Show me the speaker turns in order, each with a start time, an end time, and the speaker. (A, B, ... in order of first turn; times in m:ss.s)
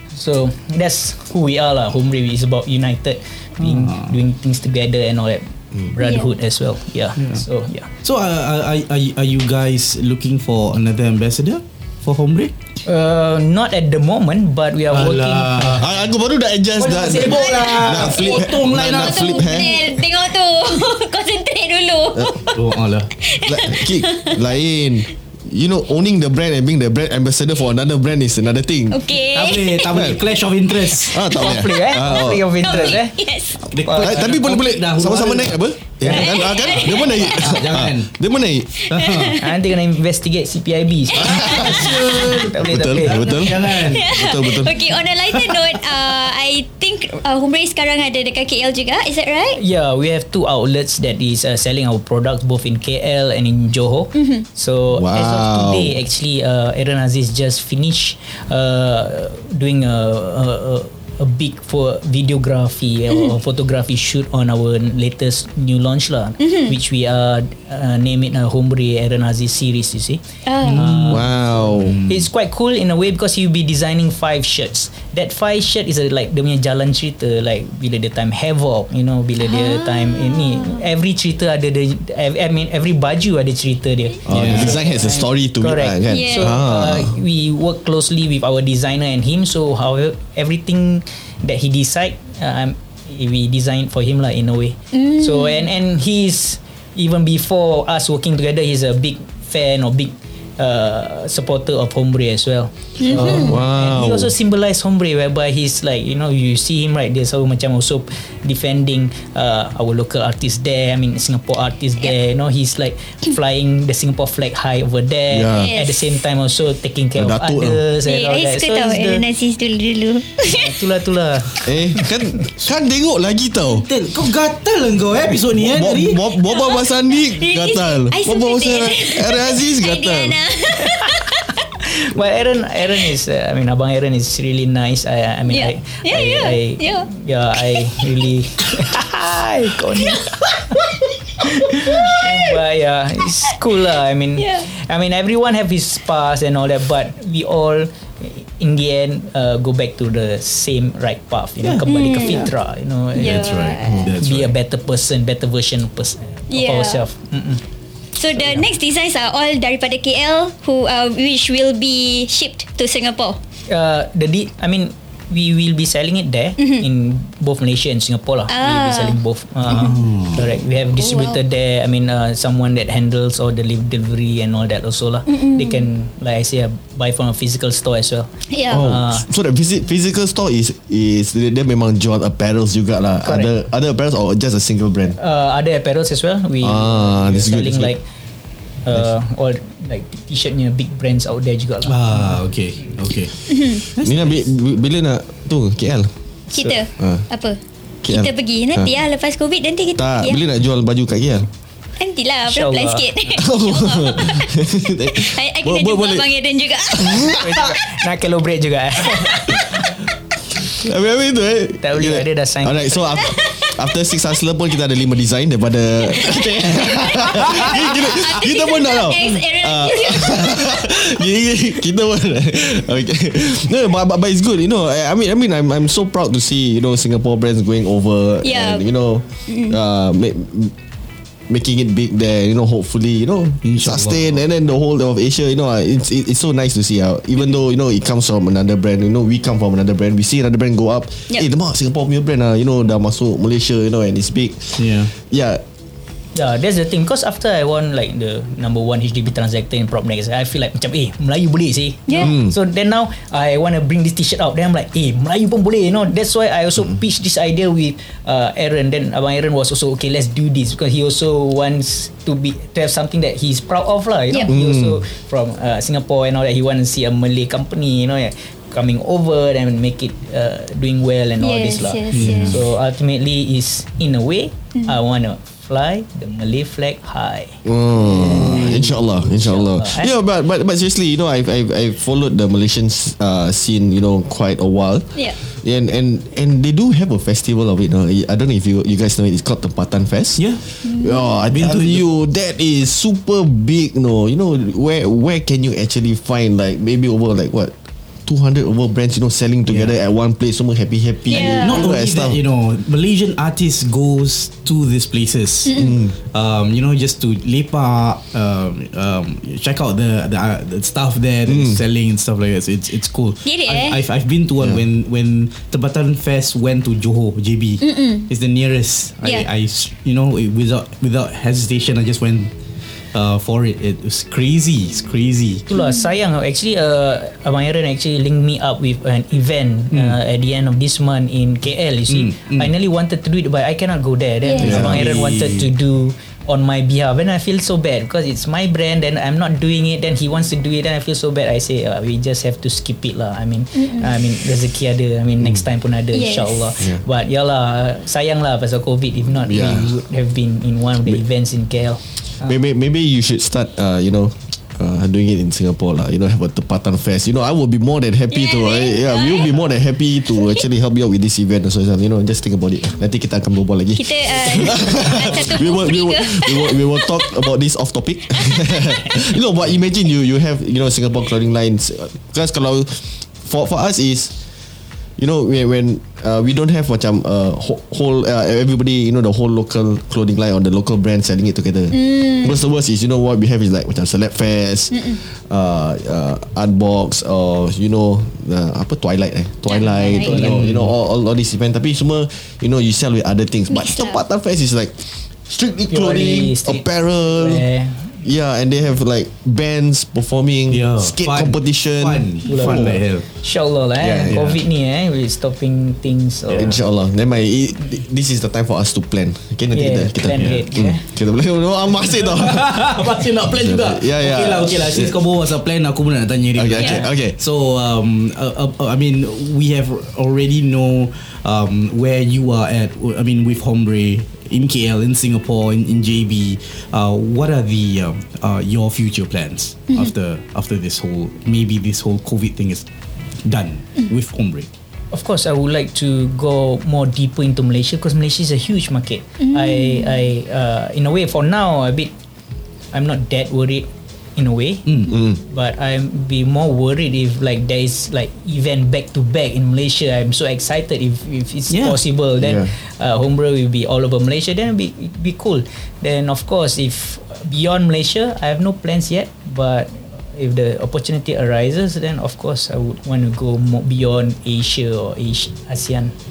0:00.1-0:07.9 A
0:03.6-0:04.1 B
0:06.0-0:06.3 C
0:08.0-0:12.5 B
0:12.8-0:15.9 A
0:14.9-0:15.9 B
0:15.7-0:19.7 D
0:16.8-0:17.9 A
0:16.8-0:19.7 B
0:17.5-0:22.6 C
0:22.2-0:22.4 D
0:22.5-0:23.1 B
0:23.2-0:24.4 C
0:23.4-0:29.2 D
0:28.9-0:30.2 C
0:29.3-0:31.2 B
0:29.9-0:30.2 D
0:30.9-0:32.8 D
0:31.0-0:33.2 A
0:32.6-0:33.6 C
0:33.6-0:38.1 B
0:33.8-0:34.3 A
0:33.9-0:38.8 D
0:36.1-0:37.4 C
0:38.8-0:39.6 C
0:38.9-0:39.4 B
0:39.4-0:43.2 A
0:41.1-0:44.9 D
0:41.5-0:44.2 B
0:43.3-0:49.6 C
0:45.3-0:45.8 B
0:49.6-1:11.3 A
0:54.2-0:54.4 C
0:54.9-0:56.0 D
1:10.5-1:10.8 C
1:10.6-1:12.3 B
1:11.1-1:12.0 D
1:12.1-1:59.2 A
1:19.4-1:20.8 C
1:24.3-1:27.2 D
1:24.3-1:24.8 B
1:26.1-1:26.6 C
1:34.9-1:35.7 C
1:43.0-1:43.6 C
1:43.1-1:44.3 D
1:55.3-1:55.7 D
1:55.4-1:56.2 C
1:57.2-1:57.8 D
1:58.0-2:00.8 C
2:00.4-2:02.1 A
2:01.6-2:03.9 D
2:03.7-2:06.2 B
2:05.2-2:10.4 D
2:06.4-2:11.5 C
2:10.9-2:11.2 A
2:11.8-2:20.8 A
2:15.5-2:17.1 C
2:21.4-2:33.6 A
2:21.7-2:22.6 C
2:24.4-2:24.7 C
2:31.6-2:32.5 B
2:31.9-2:32.5 C
2:33.1-2:34.1 C
2:33.2-2:34.5 B
2:34.2-2:37.6 A
2:36.5-2:37.0 C
2:38.2-2:43.4 C
2:38.4-2:38.7 A
2:43.7-2:59.2 A
2:48.5-2:49.2 C
2:49.7-2:50.5 B
2:51.0-2:51.4 C
2:55.3-2:55.9 C
2:58.5-2:58.9 C
2:58.7-3:05.2 D
3:03.2-3:03.5 A
3:05.2-3:08.0 A
3:06.6-3:07.9 D
3:08.8-3:12.4 A
3:11.9-3:14.4 B
3:13.5-3:13.8 C
3:14.0-3:16.1 D
3:16.5-3:20.4 C
3:17.0-3:17.2 D
3:18.0-3:18.9 D
3:20.0-3:21.5 D
3:22.0-3:27.4 C
3:22.5-3:23.1 A
3:23.3-3:26.3 D
3:26.9-3:27.7 D
3:27.2-3:29.9 A
3:30.6-3:50.7 D
3:31.8-3:33.1 A
3:33.1-3:33.7 C
3:36.1-3:40.7 C
3:48.4-3:48.8 C
3:49.5-3:49.8 C
3:51.5-4:05.6 D
3:53.6-3:54.4 B
4:04.8-4:05.1 B
4:06.3-4:40.1 A
4:12.1-4:12.3 C
4:12.2-4:12.5 D
4:24.5-4:25.0 D
4:31.4-4:32.6 C
4:32.1-4:32.6 B
4:37.6-4:57.7 D
4:38.2-4:38.8 B
4:50.4-4:50.6 B
4:50.8-4:51.3 C
4:51.5-4:52.0 B
4:58.3-5:02.4 D
4:59.7-4:59.9 B
5:01.3-5:01.9 C
5:01.4-5:22.5 B
5:05.8-5:06.1 D
5:11.5-5:11.8 D
5:13.4-5:14.0 C
5:17.8-5:18.3 C
5:19.2-5:19.5 C
5:23.1-5:25.6 B
5:25.7-5:52.6 A
5:29.9-5:30.2 B
5:32.1-5:32.7 B
5:34.4-5:34.8 C
5:34.6-5:35.7 B
5:46.1-5:46.7 C
5:49.4-5:50.0 D
5:52.4-6:14.3 D
5:58.3-5:59.6 C
6:00.4-6:00.6 C
6:03.9-6:07.4 C
6:08.3-6:09.2 C
6:15.2-6:37.6 D
6:22.0-6:22.6 C
6:29.7-6:30.5 C
6:30.3-6:30.9 B
6:30.3-6:30.6 A
6:33.7-6:34.2 C
6:35.9-6:38.2 A
6:38.2-6:42.9 D
6:40.7-6:43.3 B
6:42.4-6:46.8 A
6:44.0-6:44.5 D
6:44.3-6:44.6 B
6:46.5-6:55.2 D
6:49.7-6:51.0 A
6:50.4-6:50.6 B
6:52.1-7:12.9 B
6:56.5-6:57.4 D
7:13.4-7:14.7 B
7:15.1-7:22.1 A
7:19.5-7:20.2 C
7:22.9-7:46.1 A
7:24.9-7:25.1 B
7:25.1-7:25.4 D
7:31.7-7:32.0 B
7:32.4-7:32.7 D